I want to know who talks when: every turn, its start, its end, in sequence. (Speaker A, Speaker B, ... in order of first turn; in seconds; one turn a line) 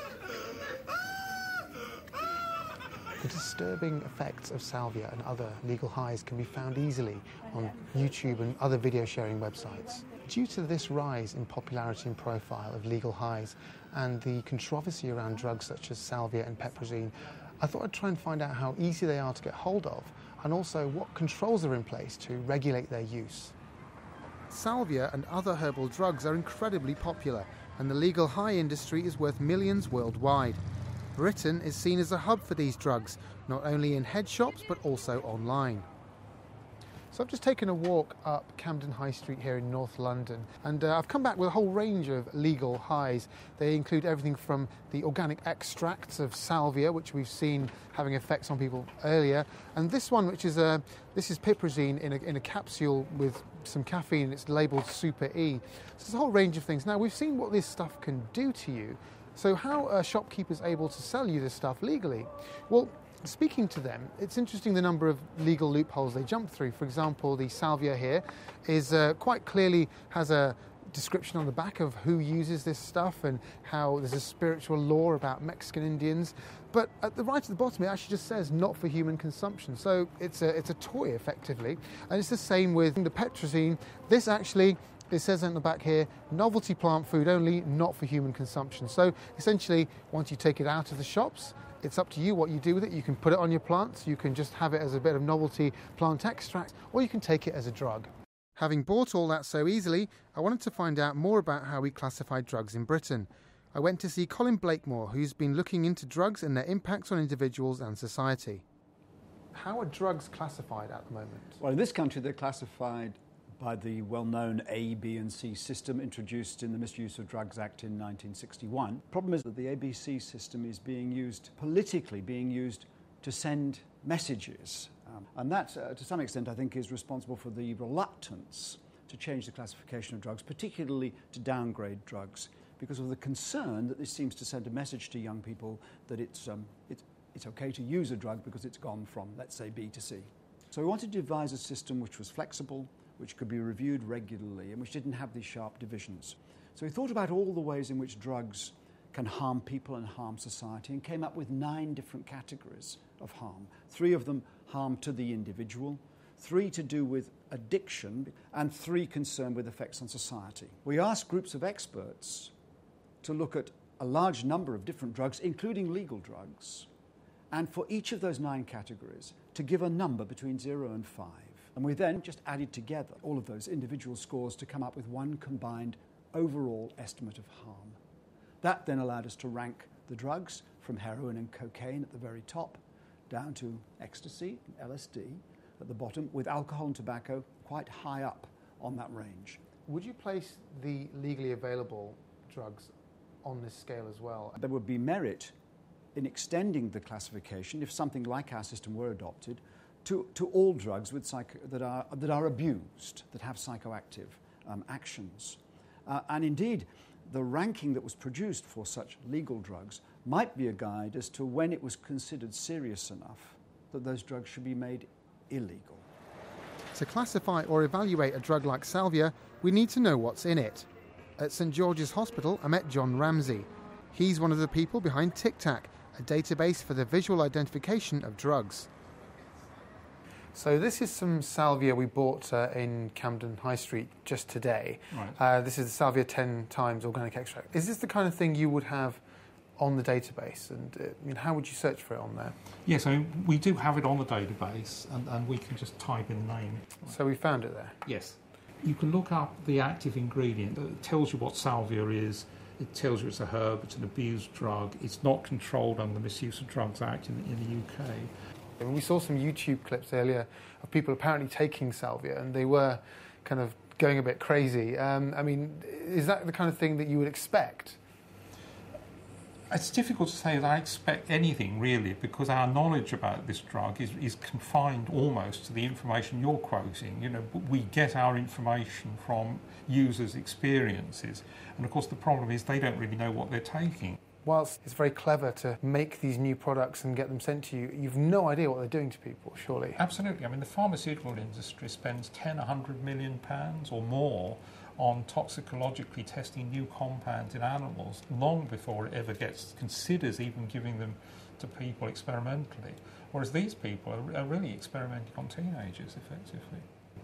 Speaker A: 3.2-23.5
Speaker A: 24.5-30.6
Speaker A: 31.1-35.9
Speaker A: 37.1-108.6
Speaker A: 109.5-111.6
Speaker B: 111.6-162.5
Speaker B: 163.2-166.9
Speaker B: 167.5-178.0
Speaker B: 178.6-189.6
Speaker A: 189.9-192.9
Speaker A: 193.4-194.6
Speaker B: 194.6-195.5
Speaker B: 196.1-216.1
Speaker A: 216.9-228.9
Speaker A: 230.5-239.2
Speaker C: 235.1-235.4
Speaker A: 239.8-242.6
Speaker C: 242.8-247.1
Speaker A: 247.0-248.0
Speaker C: 248.0-258.3
Speaker A: 258.8-268.0
Speaker C: 269.7-284.2
Speaker A: 284.4-290.0
Speaker C: 289.9-306.9